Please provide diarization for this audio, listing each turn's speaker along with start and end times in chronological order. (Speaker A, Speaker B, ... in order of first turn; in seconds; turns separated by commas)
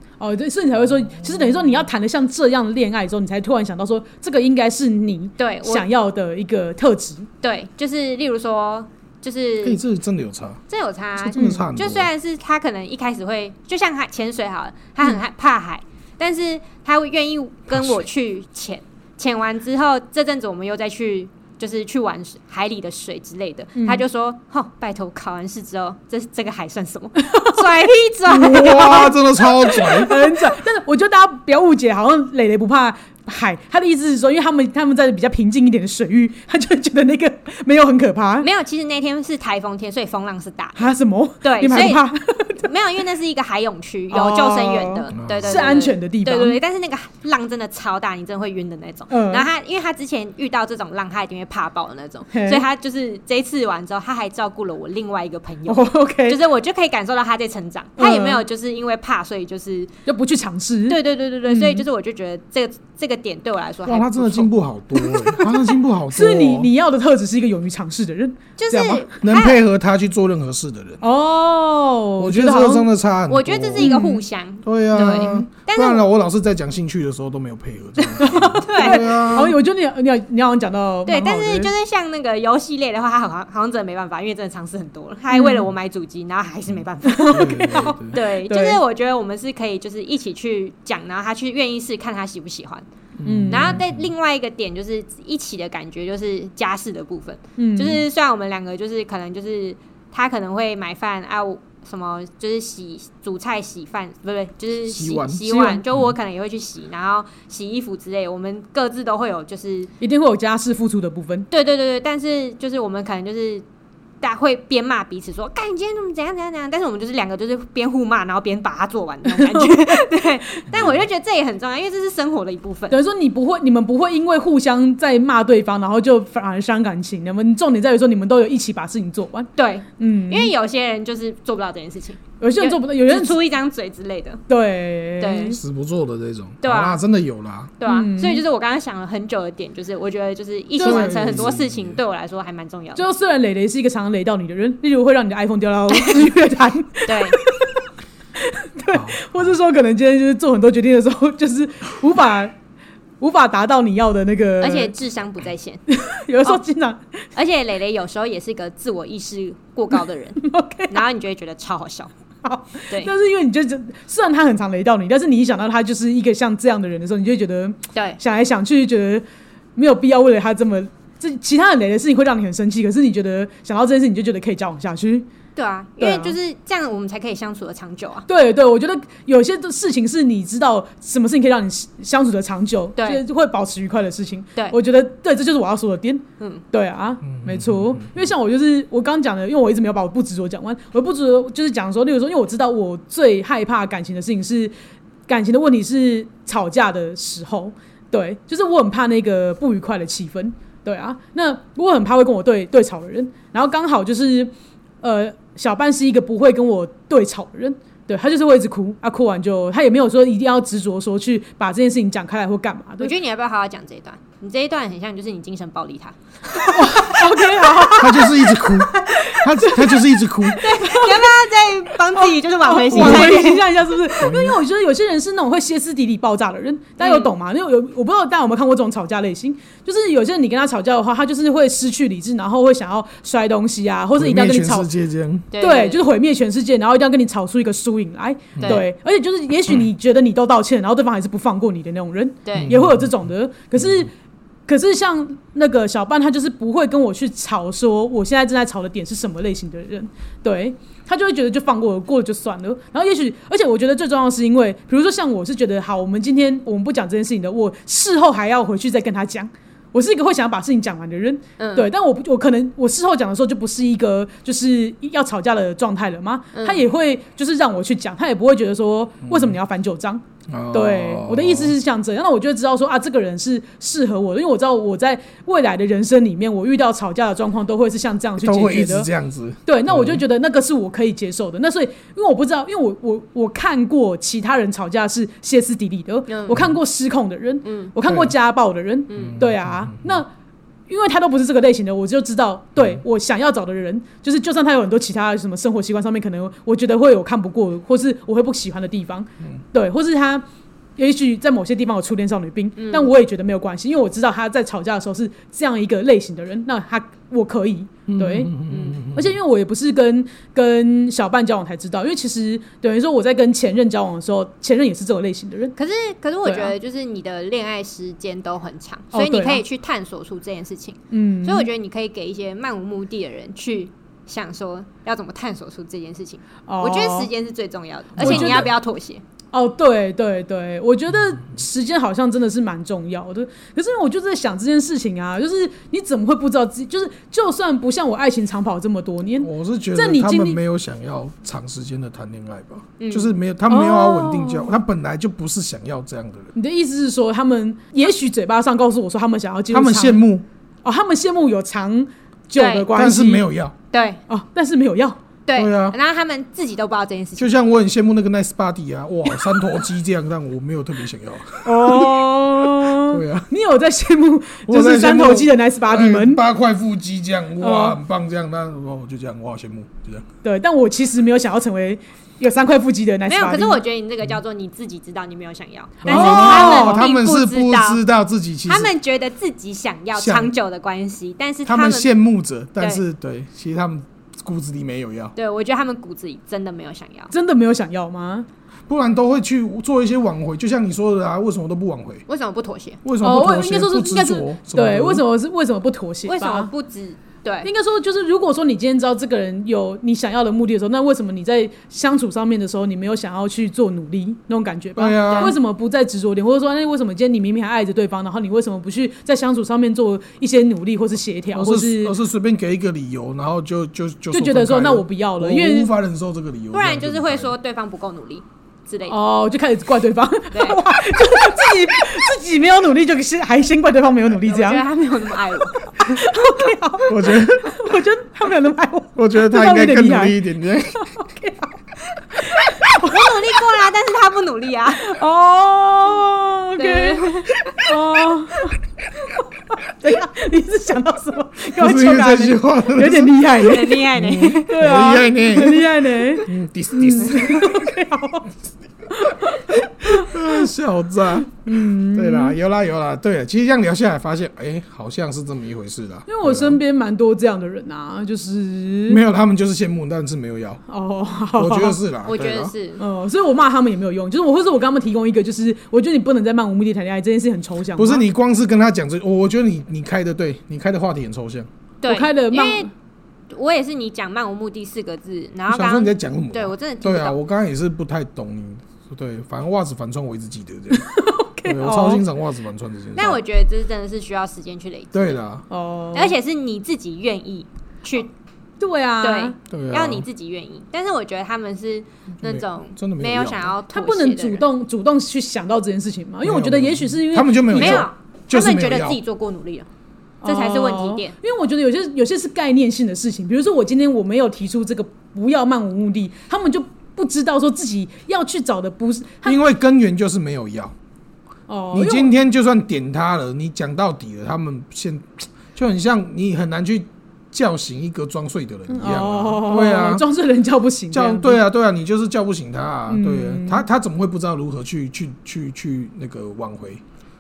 Speaker A: 0.2-7.3, Speaker B: 5.4-5.9, Speaker B: 7.4-9.8, Speaker C: 9.6-10.6, Speaker B: 10.7-29.1, Speaker C: 11.2-12.1, Speaker A: 11.3-11.7, Speaker A: 23.8-24.0, Speaker A: 27.2-27.6, Speaker C: 28.3-30.2, Speaker A: 28.3-38.5, Speaker B: 38.4-40.9, Speaker A: 40.8-42.7, Speaker B: 41.4-42.0, Speaker B: 42.6-59.9, Speaker A: 44.1-46.6, Speaker C: 45.1-45.8, Speaker A: 49.1-49.5, Speaker A: 52.3-52.6, Speaker A: 55.7-56.4, Speaker A: 58.0-58.4, Speaker A: 60.0-61.8, Speaker B: 60.9-64.5, Speaker C: 63.9-66.7, Speaker A: 65.0-69.1, Speaker B: 68.6-69.6, Speaker C: 69.2-71.0, Speaker A: 71.0-72.9, Speaker C: 72.2-74.0, Speaker B: 73.3-76.0, Speaker A: 73.8-74.2, Speaker C: 74.6-79.5, Speaker A: 78.2-81.7, Speaker B: 78.6-79.3, Speaker B: 81.0-92.9, Speaker A: 85.3-85.7, Speaker A: 87.0-88.8, Speaker C: 87.3-88.2, Speaker C: 93.2-94.1, Speaker A: 93.2-93.8, Speaker B: 93.5-109.9, Speaker A: 97.6-98.0, Speaker C: 104.9-106.1, Speaker A: 110.0-111.5, Speaker B: 111.5-113.7, Speaker B: 114.2-123.0, Speaker A: 119.3-120.6, Speaker A: 122.9-130.5, Speaker B: 129.6-134.4, Speaker A: 132.4-133.4, Speaker A: 134.5-135.6, Speaker B: 135.2-135.6, Speaker C: 135.5-137.8, Speaker B: 136.6-137.0, Speaker B: 137.8-143.1, Speaker A: 137.9-138.4, Speaker A: 140.8-141.4, Speaker C: 140.8-142.0, Speaker A: 142.9-147.8, Speaker B: 146.0-146.3, Speaker B: 147.1-147.4, Speaker A: 148.5-152.5, Speaker C: 148.9-149.5, Speaker A: 153.2-154.9, Speaker B: 154.6-155.8, Speaker A: 155.9-157.2, Speaker B: 157.3-162.1, Speaker A: 160.4-161.0, Speaker A: 162.4-169.2, Speaker A: 169.8-175.3, Speaker B: 175.6-178.2, Speaker A: 176.0-176.4, Speaker A: 178.3-194.7, Speaker B: 183.0-183.2, Speaker C: 187.2-188.3, Speaker A: 195.3-213.1, Speaker B: 213.0-216.2, Speaker A: 216.6-221.3, Speaker B: 216.7-217.3, Speaker C: 218.0-220.6, Speaker B: 220.6-223.7, Speaker A: 222.1-234.9, Speaker C: 222.9-223.4, Speaker C: 224.2-224.6, Speaker B: 227.0-227.3, Speaker C: 234.2-235.5, Speaker B: 235.5-236.0, Speaker A: 235.6-244.1, Speaker C: 238.6-238.8, Speaker B: 242.4-242.7, Speaker C: 242.5-243.1, Speaker C: 243.8-244.0, Speaker A: 244.7-279.1, Speaker B: 261.6-261.9, Speaker B: 266.5-266.8, Speaker C: 269.2-269.6, Speaker C: 270.5-271.8, Speaker C: 278.4-280.2, Speaker A: 279.7-290.3, Speaker B: 286.3-286.6, Speaker C: 286.5-286.8, Speaker B: 287.6-287.9, Speaker C: 288.1-288.3, Speaker B: 289.1-289.4, Speaker C: 289.1-290.2, Speaker A: 290.9-300.4, Speaker A: 301.0-308.5, Speaker B: 302.8-303.1, Speaker C: 308.1-309.4, Speaker B: 308.7-309.0, Speaker A: 309.1-315.7, Speaker B: 315.8-329.2, Speaker A: 316.4-316.7, Speaker A: 319.1-319.6, Speaker A: 321.1-321.7, Speaker A: 326.7-327.3, Speaker C: 328.2-328.7, Speaker A: 328.2-328.7, Speaker A: 329.5-340.6, Speaker C: 339.4-346.5, Speaker B: 343.0-343.3, Speaker A: 343.7-344.7, Speaker A: 346.5-350.2, Speaker C: 349.7-350.5, Speaker A: 350.8-353.4, Speaker B: 352.5-352.9, Speaker C: 352.9-353.8, Speaker B: 353.9-354.2, Speaker A: 354.3-355.2, Speaker B: 355.5-357.5, Speaker C: 355.6-356.0, Speaker C: 357.4-363.5, Speaker A: 361.6-366.4, Speaker C: 364.7-370.2, Speaker A: 367.6-368.0, Speaker A: 370.4-373.8, Speaker B: 373.3-378.0, Speaker C: 376.0-378.9, Speaker A: 376.0-377.0, Speaker B: 378.7-382.1, Speaker C: 380.1-380.5, Speaker C: 381.6-385.3, Speaker B: 385.4-387.3, Speaker A: 387.3-388.5, Speaker C: 388.9-392.2, Speaker B: 392.3-393.0, Speaker C: 393.0-395.2, Speaker A: 393.2-396.7, Speaker B: 396.3-397.7, Speaker A: 397.6-412.1, Speaker C: 405.0-405.5, Speaker B: 405.2-405.5, Speaker C: 411.5-417.6, Speaker A: 414.3-415.9, Speaker B: 416.7-419.2, Speaker A: 419.1-424.8, Speaker B: 420.5-420.8, Speaker B: 424.4-425.8, Speaker A: 425.8-430.4, Speaker C: 427.1-427.8, Speaker C: 429.2-431.1, Speaker A: 430.9-431.7, Speaker A: 432.3-433.3, Speaker B: 432.9-435.1, Speaker A: 435.0-438.8, Speaker B: 436.8-437.8, Speaker A: 439.7-448.5, Speaker C: 441.8-447.9, Speaker B: 443.6-444.8, Speaker A: 449.1-450.6, Speaker C: 450.0-456.8, Speaker A: 451.5-452.6, Speaker A: 456.3-459.2, Speaker C: 459.1-460.8, Speaker A: 460.9-462.0, Speaker C: 461.5-462.7, Speaker B: 462.2-463.0, Speaker A: 463.0-468.2, Speaker C: 468.0-471.7, Speaker B: 472.0-472.9, Speaker A: 472.0-472.9, Speaker B: 473.5-477.4, Speaker C: 475.7-481.1, Speaker A: 480.9-482.2, Speaker C: 481.6-483.4, Speaker B: 483.1-485.4, Speaker C: 485.1-485.6, Speaker A: 485.7-486.3, Speaker B: 486.1-488.3, Speaker A: 488.8-489.6, Speaker B: 489.2-494.6, Speaker C: 489.7-490.2, Speaker C: 492.4-493.7, Speaker A: 493.9-498.1, Speaker C: 496.4-499.2, Speaker B: 497.7-499.9, Speaker A: 500.4-509.6, Speaker B: 500.4-501.3, Speaker C: 509.4-510.9, Speaker A: 511.7-512.3, Speaker C: 511.9-520.2, Speaker A: 518.9-521.6, Speaker C: 521.1-527.0, Speaker A: 523.1-523.9